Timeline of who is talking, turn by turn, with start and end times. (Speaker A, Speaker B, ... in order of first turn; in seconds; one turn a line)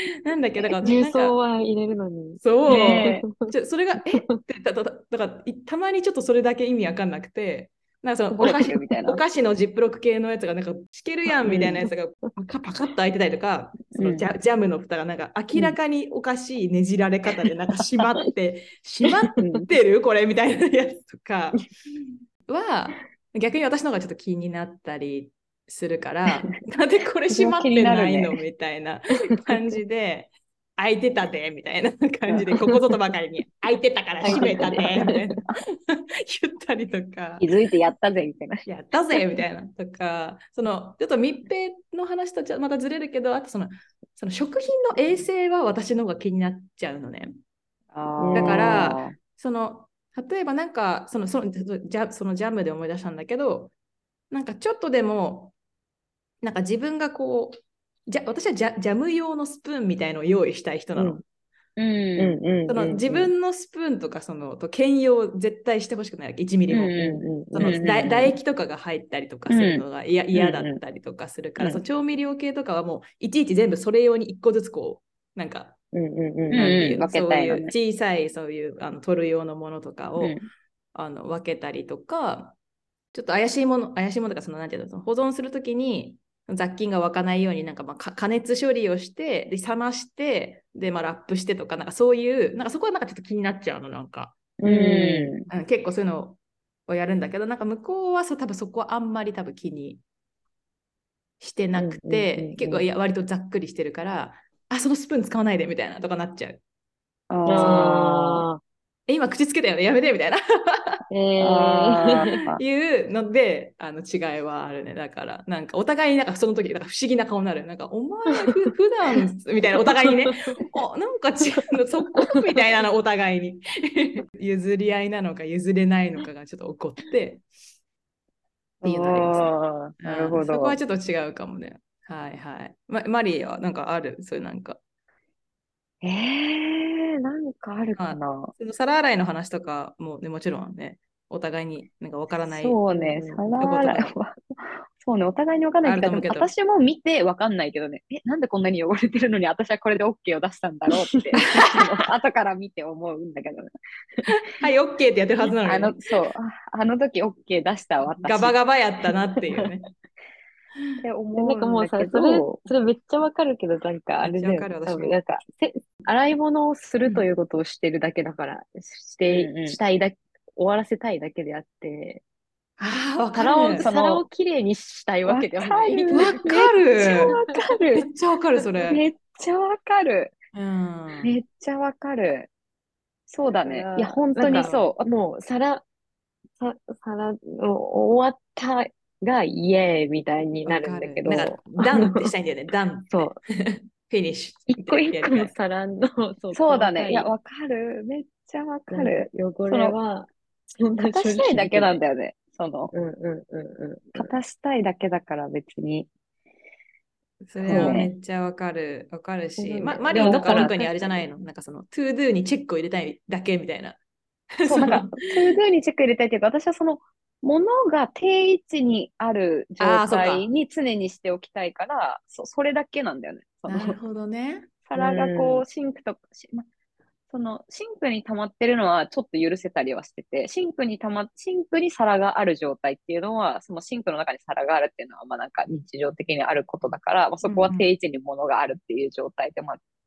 Speaker A: 0.2-1.4
Speaker B: 0.8-3.5
Speaker A: 2.4-37.4
Speaker C: 2.7-3.3
Speaker B: 8.3-8.7
Speaker C: 8.4-9.2
Speaker B: 11.4-11.9
Speaker C: 11.5-11.8
Speaker C: 13.9-14.3
Speaker C: 19.4-19.7
Speaker C: 27.3-28.4
Speaker C: 32.3-32.7
Speaker B: 34.2-35.3
Speaker C: 34.2-35.1
Speaker C: 37.4-38.6
Speaker A: 38.6-47.3
Speaker C: 47.9-49.1
Speaker B: 48.2-48.9
Speaker A: 48.3-53.7
Speaker A: 54.3-55.5
Speaker A: 56.4-61.2
Speaker B: 60.9-61.2
Speaker C: 61.8-62.4
Speaker B: 62.2-63.3
Speaker A: 62.7-66.9
Speaker C: 66.7-68.3
Speaker B: 67.0-67.8
Speaker A: 67.5-75.8
Speaker C: 69.5-70.8
Speaker B: 75.9-76.8
Speaker C: 76.5-77.7
Speaker A: 76.5-80.4
Speaker C: 80.2-80.4
Speaker A: 80.9-82.5
Speaker A: 83.1-94.4
Speaker C: 94.6-95.5
Speaker B: 94.6-95.3
Speaker A: 95.5-100.0
Speaker A: 101.4-106.6
Speaker B: 101.7-102.9
Speaker C: 107.3-108.5
Speaker B: 107.4-108.6
Speaker A: 107.5-108.0
Speaker A: 109.1-111.0
Speaker B: 111.1-112.2
Speaker C: 111.4-112.6
Speaker A: 112.6-127.4
Speaker B: 119.9-120.3
Speaker C: 128.8-130.8
Speaker A: 128.8-134.8
Speaker C: 136.0-138.5
Speaker A: 138.0-142.8
Speaker C: 142.4-153.7
Speaker B: 142.9-143.5
Speaker A: 143.6-144.1
Speaker A: 145.8-146.5
Speaker B: 151.3-151.8
Speaker A: 151.4-152.0
Speaker A: 154.3-156.0
Speaker C: 155.6-158.5
Speaker A: 158.2-159.9
Speaker A: 160.8-161.0
Speaker C: 161.0-162.6
Speaker B: 161.3-172.2
Speaker A: 164.2-165.2
Speaker A: 167.0-167.3
Speaker C: 169.2-169.8
Speaker A: 172.8-173.8
Speaker B: 173.3-176.7
Speaker C: 173.8-174.3
Speaker C: 175.2-178.1
Speaker A: 176.1-177.4
Speaker A: 177.9-179.0
Speaker C: 178.8-180.4
Speaker A: 180.5-181.3
Speaker C: 181.2-182.5
Speaker C: 183.3-185.0
Speaker B: 183.5-185.8
Speaker A: 184.3-184.9
Speaker B: 186.6-192.3
Speaker A: 190.6-195.5
Speaker B: 193.1-193.4
Speaker B: 194.7-197.3
Speaker C: 196.5-199.9
Speaker B: 198.9-202.0
Speaker C: 201.0-202.9
Speaker B: 202.9-204.3
Speaker C: 204.1-206.1
Speaker A: 207.4-214.0
Speaker C: 207.6-208.1
Speaker B: 207.6-208.0
Speaker B: 209.6-211.1
Speaker C: 210.1-211.0
Speaker A: 214.6-215.3
Speaker C: 214.7-224.0
Speaker A: 219.8-220.5
Speaker A: 223.7-224.7
Speaker C: 224.9-226.7
Speaker B: 224.9-225.6
Speaker C: 227.3-239.8
Speaker A: 237.4-237.8